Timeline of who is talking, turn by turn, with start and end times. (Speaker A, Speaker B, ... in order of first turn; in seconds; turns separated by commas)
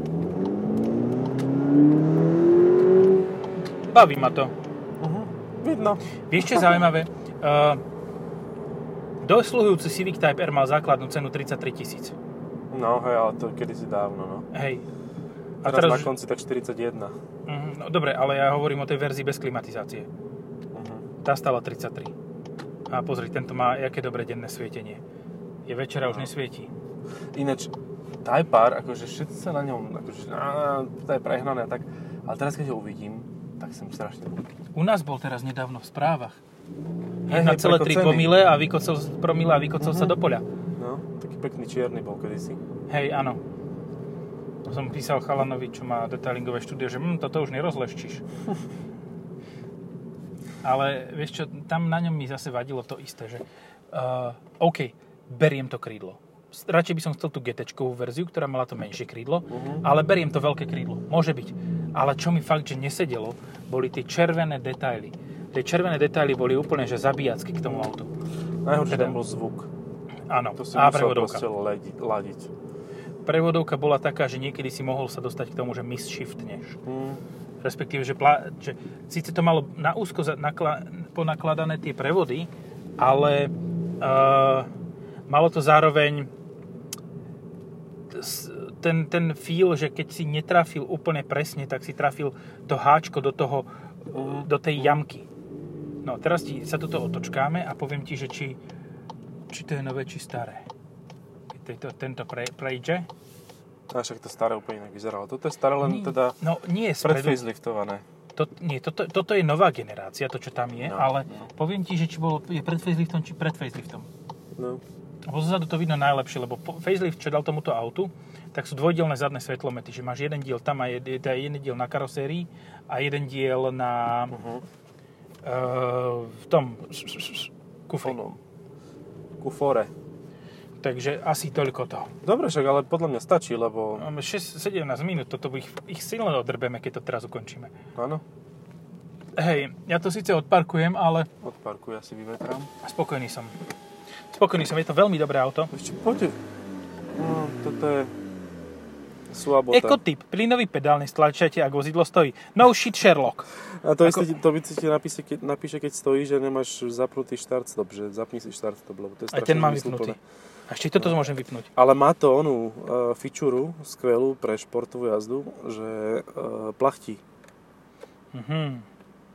Speaker A: 3.9-4.5, Speaker B: 5.0-6.9, Speaker A: 6.3-7.8, Speaker A: 9.2-12.1, Speaker B: 12.7-14.5, Speaker A: 14.5-14.8, Speaker A: 15.6-16.1, Speaker B: 15.6-17.1, Speaker A: 17.5-20.1, Speaker B: 20.7-21.1, Speaker A: 21.2-22.1, Speaker A: 22.9-25.0, Speaker A: 25.7-26.7, Speaker B: 26.0-26.3, Speaker B: 27.3-27.7, Speaker B: 28.2-34.5, Speaker A: 34.8-36.4, Speaker A: 37.3-40.4, Speaker B: 37.3-38.3, Speaker B: 39.8-40.2, Speaker B: 40.8-42.6, Speaker A: 42.9-43.4, Speaker A: 44.7-48.2, Speaker A: 50.6-68.1, Speaker B: 59.5-59.9, Speaker B: 67.7-67.9, Speaker B: 68.6-69.7, Speaker A: 68.9-69.2, Speaker A: 70.3-71.5, Speaker B: 70.6-72.5, Speaker A: 73.2-76.8, Speaker B: 76.9-77.2, Speaker A: 77.6-84.7, Speaker A: 85.3-86.3, Speaker A: 88.1-95.3, Speaker B: 94.1-95.0, Speaker A: 96.0-98.6, Speaker A: 99.5-100.6, Speaker A: 101.5-103.1, Speaker B: 103.9-106.4, Speaker A: 105.8-107.4, Speaker B: 107.0-108.0, Speaker A: 108.3-114.1, Speaker B: 110.8-111.5, Speaker B: 114.6-114.8, Speaker A: 115.3-124.4, Speaker B: 124.3-124.6, Speaker A: 125.4-128.2, Speaker B: 128.0-128.4, Speaker B: 129.4-129.9, Speaker A: 130.8-132.1, Speaker B: 132.2-134.1, Speaker A: 134.0-137.7, Speaker B: 138.0-138.2, Speaker A: 139.4-141.3, Speaker B: 141.4-142.7, Speaker A: 142.8-143.6, Speaker A: 144.3-145.7, Speaker B: 145.7-146.4, Speaker B: 147.2-148.1, Speaker B: 149.3-150.0, Speaker A: 149.7-153.5, Speaker B: 153.8-160.2, Speaker A: 159.3-161.7, Speaker B: 161.8-167.2, Speaker A: 168.3-168.9